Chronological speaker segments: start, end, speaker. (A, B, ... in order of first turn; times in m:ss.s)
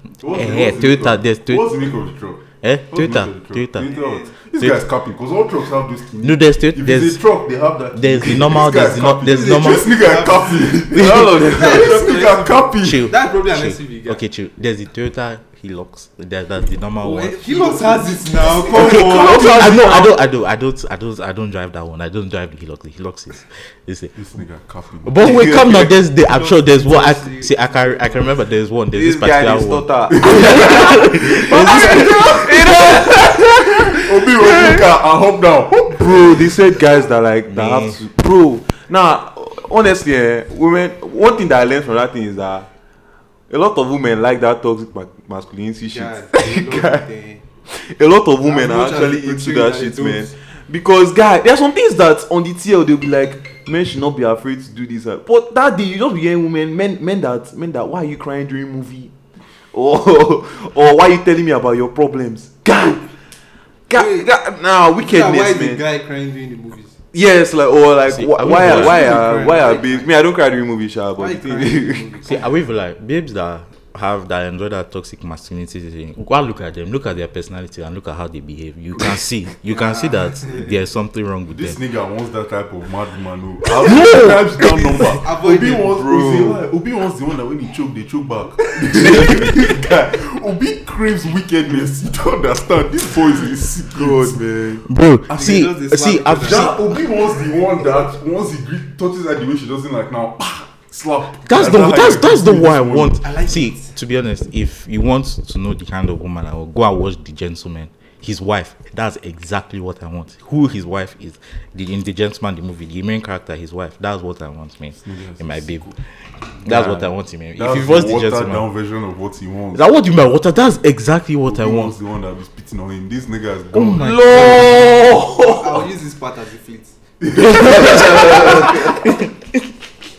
0:00.2-0:13.1 A
0:00.2-0:01.8 B
0:02.6-0:03.9 B
0:03.9-0:04.3 C
0:04.6-0:04.8 B
0:06.2-0:07.2 B
0:07.9-0:10.0 B
0:09.2-0:10.8 C
0:10.7-0:12.2 D
0:11.4-0:14.2 C
0:12.8-0:17.7 B
0:17.0-0:19.9 C
0:17.5-0:17.8 D
0:18.6-0:20.1 D
0:18.6-0:24.1 B
0:24.1-0:25.6 A
0:25.0-0:33.0 B
0:25.2-0:25.9 D
0:26.2-0:28.4 C
0:28.9-0:34.8 D
0:30.1-0:32.5 A
0:33.5-0:36.6 A
0:35.9-0:42.7 D
0:37.5-0:38.0 B
0:43.5-0:47.0 D
0:45.8-0:47.4 C
0:47.6-0:59.1 D
0:48.4-0:50.3 C
0:59.7-1:03.1 D
1:03.9-1:05.8 D
1:03.9-1:04.3 C
1:05.0-1:06.9 C
1:07.1-1:12.1 D
1:08.1-1:09.2 B
1:08.5-1:10.1 C
1:11.2-1:12.5 C
1:12.2-1:21.8 B
1:19.7-1:20.7 C
1:21.5-1:34.4 A
1:23.8-1:25.0 B
1:25.2-1:26.0 C
1:25.8-1:26.6 D
1:33.9-1:34.8 D
1:34.8-1:36.9 B
1:35.3-1:36.8 C
1:36.4-1:43.2 A
1:41.4-1:55.9 B
1:43.2-1:43.9 C
1:55.0-1:56.0 A
1:56.6-1:58.7 B
1:56.7-1:57.0 D
1:57.6-1:59.8 A
1:59.7-2:01.9 B
2:01.4-2:04.5 A
2:03.7-2:04.9 B
2:04.0-2:05.9 D
2:05.4-2:07.0 C
2:07.2-2:08.0 A
2:07.4-2:09.3 B
2:07.5-2:09.0 D